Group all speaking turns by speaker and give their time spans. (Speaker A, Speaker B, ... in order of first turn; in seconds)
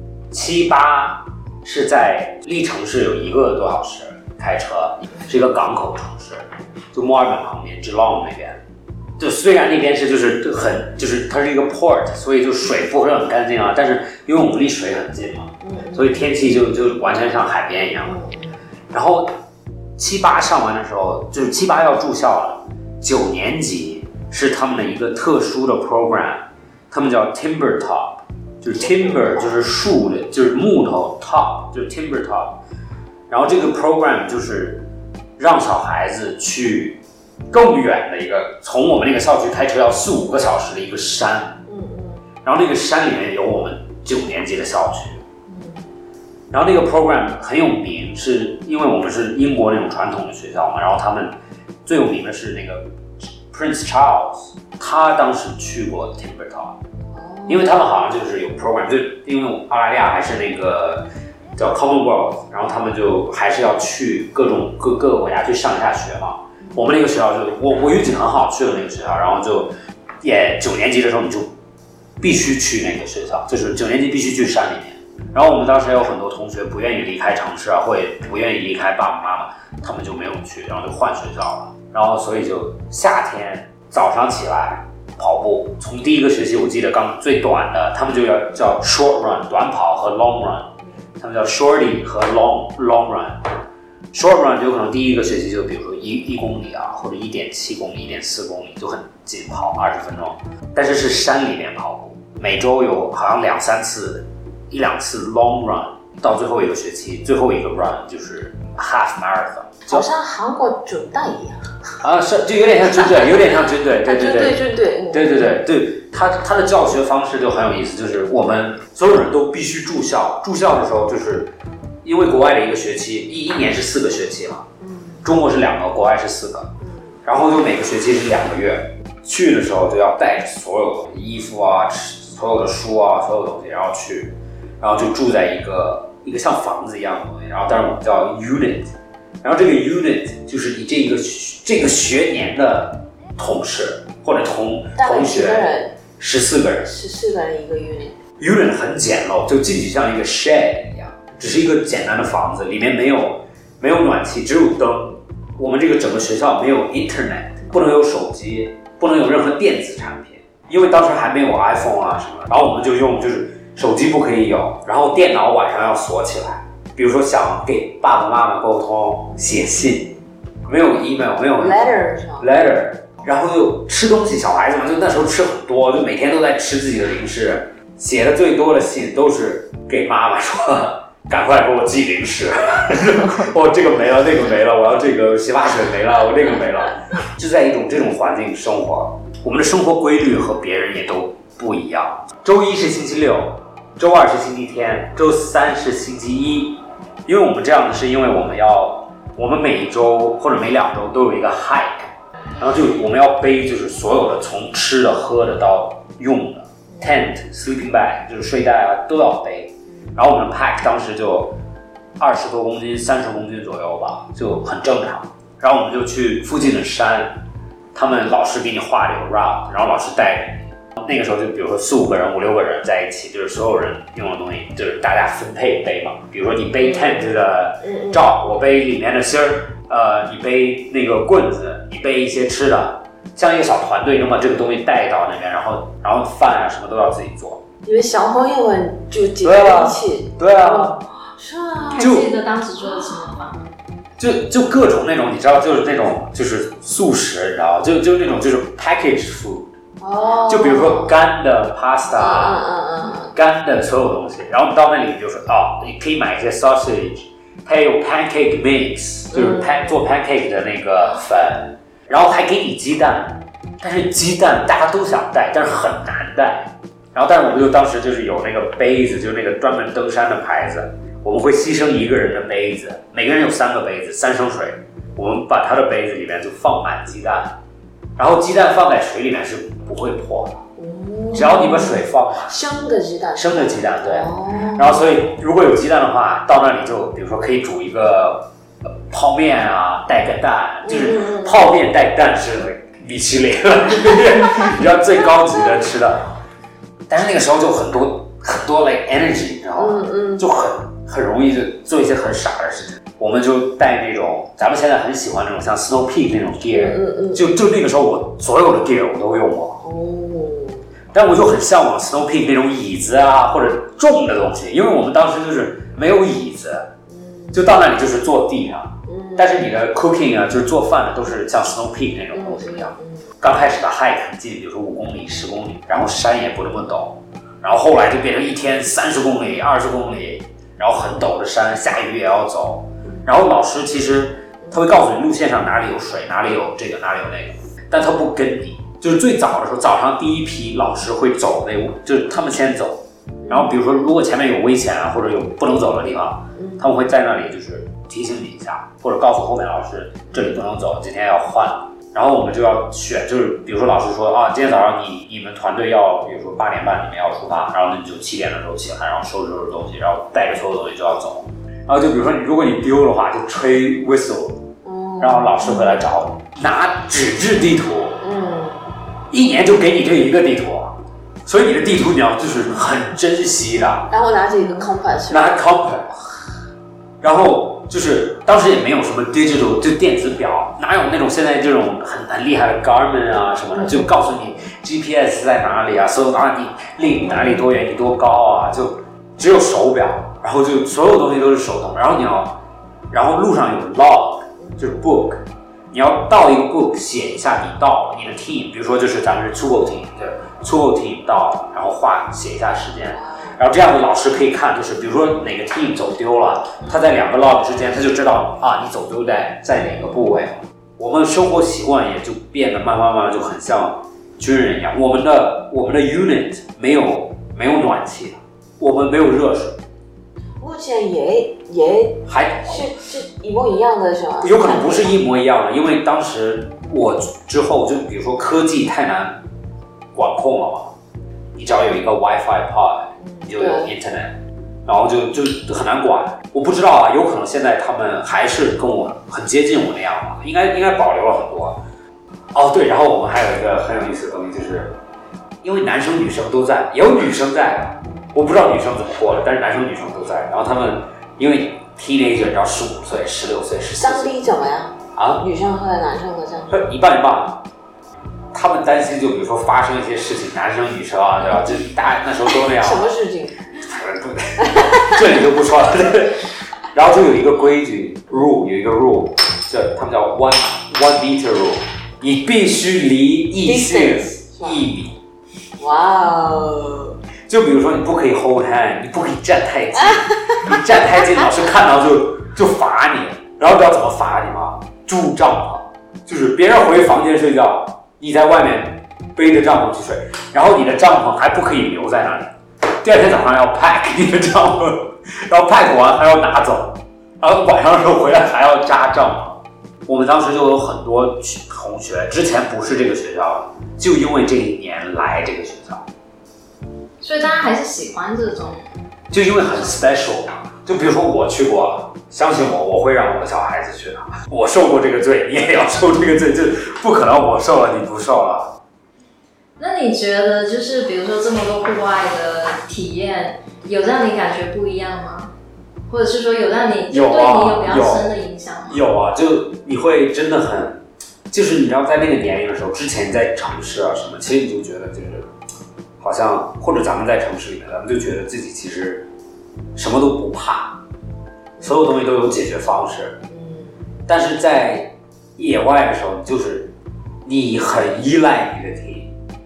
Speaker A: 0.3-8.6, 9.2-18.2, 18.9-19.3, 20.0-32.6, 33.3-34.9, 35.4-37.0, 37.5-41.6, 42.4-45.2, 46.5-51.3, 51.9-56.8, 57.5-71.5, 72.2-93.5, 94.1-110.1, 112.0-124.7, 125.2-126.7, 127.2-145.7, 146.2-146.9, 148.4-170.1, 170.7-211.6, 212.2-217.3, 217.9-237.6, 239.4-241.0, 242.0-242.3, 244.2-249.7, 250.5-252.7, 253.3-277.6, 278.2-280.6, 281.3-282.6, 283.4-296.4, 297.1-309.8, 311.1-316.9, 317.5-364.7, 365.2-368.2, 369.3-374.1, 375.3-376.5, 377.2-392.6, 393.1-419.8, 422.3-422.9, 424.4-429.4, 430.1-430.9, 431.6-434.4, 434.9-441.8, 442.5-444.9, 445.6-454.3, 455.1-455.4, 456.7-457.6, 458.5-463.1, 463.8-475.1, 477.5-506.1, 509.3-518.8, 527.1-528.3, 528.9-535.5, 536.2-539.3, 540.0-541.0, 541.8-543.4, 544.3-546.9, 547.5-549.3
Speaker B: 15.6-16.3, 18.1-18.7, 28.8-29.5, 41.7-42.2, 45.5-45.9, 57.1-57.7, 109.9-111.8, 113.9-115.6, 124.8-125.3, 126.8-127.2, 145.0-146.0, 146.8-148.2, 169.3-170.2, 171.6-172.5, 206.9-207.3, 227.8-228.3, 237.8-242.1, 250.0-251.1, 252.1-253.3, 259.3-259.9, 280.8-285.1, 290.8-291.6, 299.8-300.4, 306.7-307.4, 309.8-310.8, 317.1-317.6, 319.1-319.5, 322.3-323.3, 343.4-343.7, 346.6-346.8, 364.8-366.0, 368.2-368.9, 374.1-375.6, 383.7-384.2, 387.2-387.7, 394.6-395.1, 403.1-403.6, 409.8-410.4, 420.6-425.1, 433.2-433.9, 454.0-456.8, 462.7-463.6, 464.6-465.1, 473.6-474.9, 475.8-477.2, 480.0-480.6, 543.5-544.0
Speaker C: 241.9-243.7, 507.2-508.9, 519.8-525.5, 526.1-529.0